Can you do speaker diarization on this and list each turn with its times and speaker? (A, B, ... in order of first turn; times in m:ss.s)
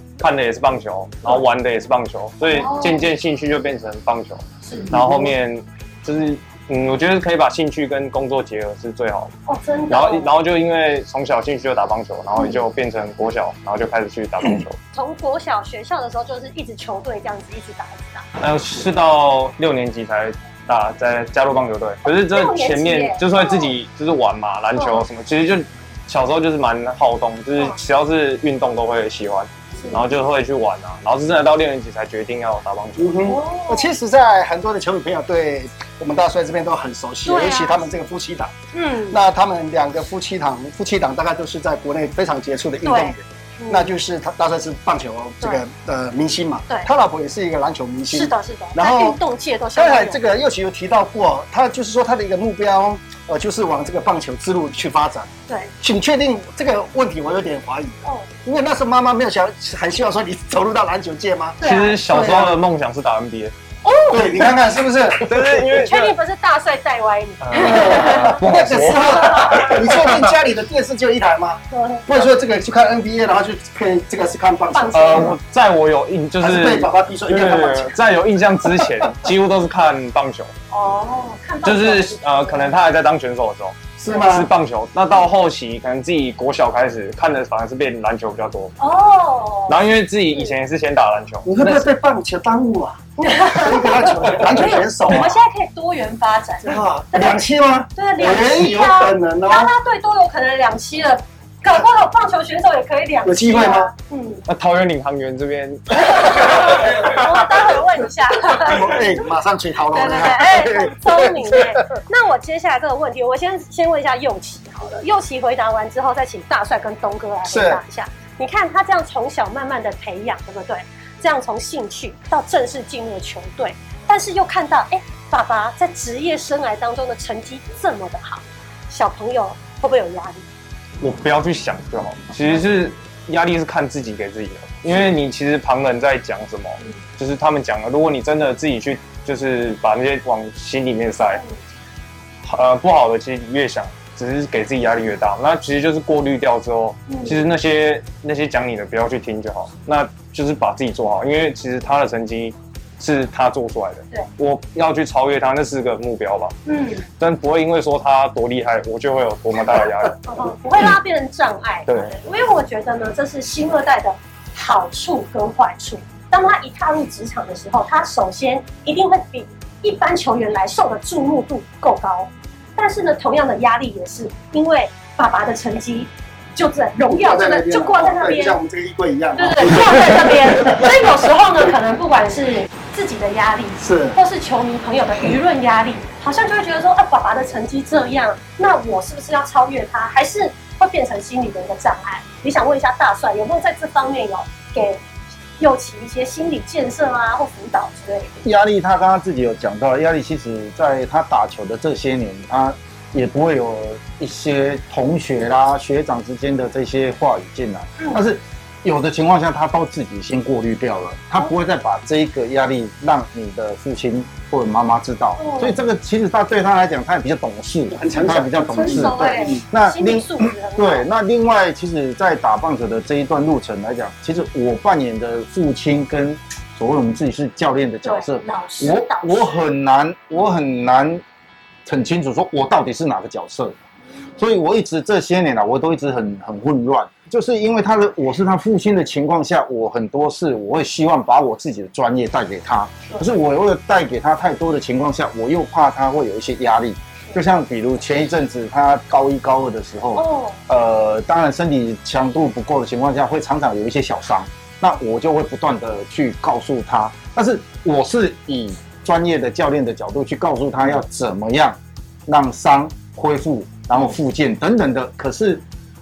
0:00.2-0:09.3 A
0:02.4-0:03.0 B
0:04.6-0:04.9 B
0:04.9-0:05.3 C
0:09.5-0:10.3 B
0:09.9-0:14.8 A
0:14.9-0:18.2 B
0:18.4-0:33.2 A
0:22.0-0:23.7 B
0:24.7-0:25.0 B
0:29.8-0:30.0 B
0:33.0-0:38.5 C
0:33.2-0:33.9 B
0:37.2-0:37.8 B
0:38.7-0:39.2 B
0:39.1-0:49.2 C
0:42.8-0:43.9 B
0:48.1-0:50.2 B
0:49.8-0:55.3 C
0:55.8-1:02.5 C
1:01.6-1:02.5 B
1:01.6-1:03.5 A
1:03.8-1:04.4 B
1:04.1-1:05.3 C
1:05.2-1:06.1 A
1:05.7-1:08.4 B
1:07.4-1:09.8 A
1:07.6-1:15.3 C
1:07.9-1:10.2 D
1:09.0-1:09.6 B
1:11.7-1:12.3 B
1:14.7-1:15.3 B
1:14.9-1:20.5 A
1:16.4-1:18.0 C
1:20.7-1:22.7 B
1:21.6-1:28.8 A
1:24.0-1:24.5 C
1:28.8-1:29.8 B
1:29.7-1:31.9 A
1:31.4-1:35.4 C
1:33.2-1:37.4 B
1:36.6-1:39.7 C
1:37.9-1:44.4 B
1:43.2-1:43.9 C
1:44.5-1:47.3 A
1:46.1-1:49.0 B
1:48.6-1:51.8 C
1:49.9-2:10.4 B
1:57.4-1:57.8 C
2:11.0-2:21.4 A
2:21.3-2:21.5 B
2:22.4-2:36.6 A
2:27.1-2:27.4 B
2:36.6-2:37.0 B
2:37.2-2:40.2 A
2:40.3-2:58.6 B
2:41.9-2:42.1 A
2:57.1-3:00.8 C
2:59.4-3:15.0 B
3:03.8-3:04.2 C
3:15.6-3:18.4 B
3:18.4-3:51.2 D
3:35.4-3:35.8 B
3:37.9-3:39.6 C
3:38.7-3:41.1 B
3:48.0-3:49.6 B
3:51.8-3:53.8 D
3:54.4-4:25.6 D
4:10.1-4:10.6 B